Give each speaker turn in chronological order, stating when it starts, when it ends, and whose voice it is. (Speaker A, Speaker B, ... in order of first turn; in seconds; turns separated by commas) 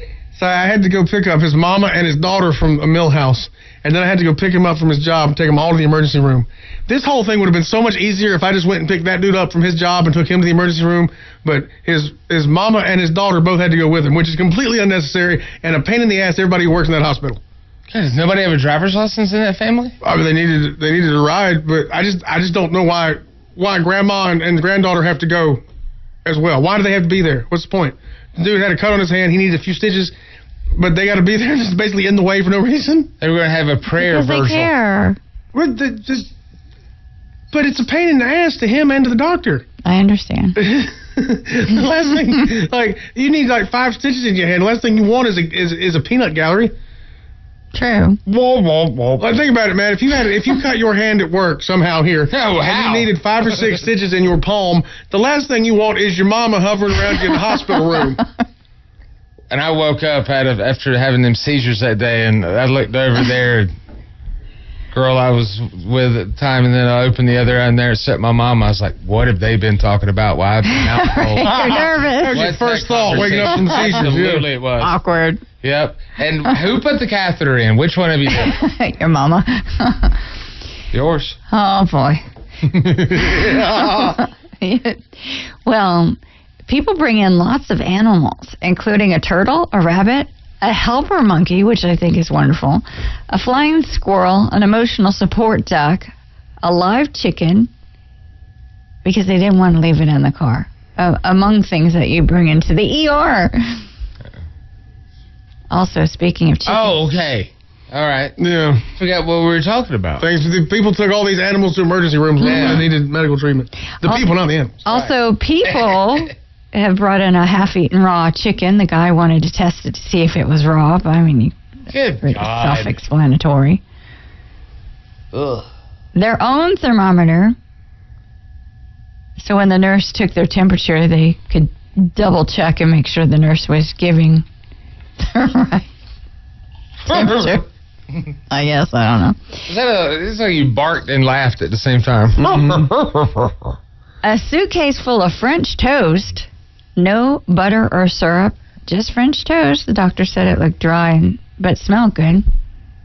Speaker A: 0.3-17.4, Speaker B: 17.9-19.9, Speaker A: 20.0-25.6, Speaker A: 26.2-30.1, Speaker A: 30.8-33.1, Speaker B: 33.2-34.7, Speaker C: 34.0-35.2, Speaker A: 35.5-36.3, Speaker A: 37.5-39.6, Speaker C: 39.8-40.6, Speaker A: 40.6-46.7, Speaker C: 47.7-48.2, Speaker B: 48.2-49.4, Speaker A: 49.2-58.2, Speaker B: 52.3-53.8, Speaker B: 59.5-63.7, Speaker B: 64.9-74.9, Speaker C: 70.8-72.5, Speaker A: 71.5-74.5, Speaker C: 73.3-74.0, Speaker C: 74.8-75.4, Speaker B: 75.6-78.6, Speaker C: 78.3-80.2, Speaker B: 80.9-81.4, Speaker C: 81.5-82.2, Speaker A: 82.7-84.2, Speaker C: 83.1-97.7, Speaker C: 99.0-103.8, Speaker C: 105.7-107.1, Speaker B: 106.7-108.3, Speaker A: 108.4-108.8, Speaker B: 108.9-110.3, Speaker A: 110.2-114.8, Speaker B: 112.4-112.9, Speaker C: 112.4-112.8, Speaker C: 114.0-114.3, Speaker C: 114.8-121.5, Speaker B: 114.9-115.1, Speaker B: 115.6-116.1, Speaker B: 121.9-123.0, Speaker C: 122.2-123.8, Speaker B: 125.3-125.7, Speaker C: 126.1-127.5, Speaker C: 129.4-134.4, Speaker C: 135.2-135.9, Speaker C: 137.1-137.7, Speaker B: 137.1-137.6, Speaker C: 138.5-139.6, Speaker B: 139.7-143.5, Speaker A: 142.4-142.9, Speaker C: 144.2-152.4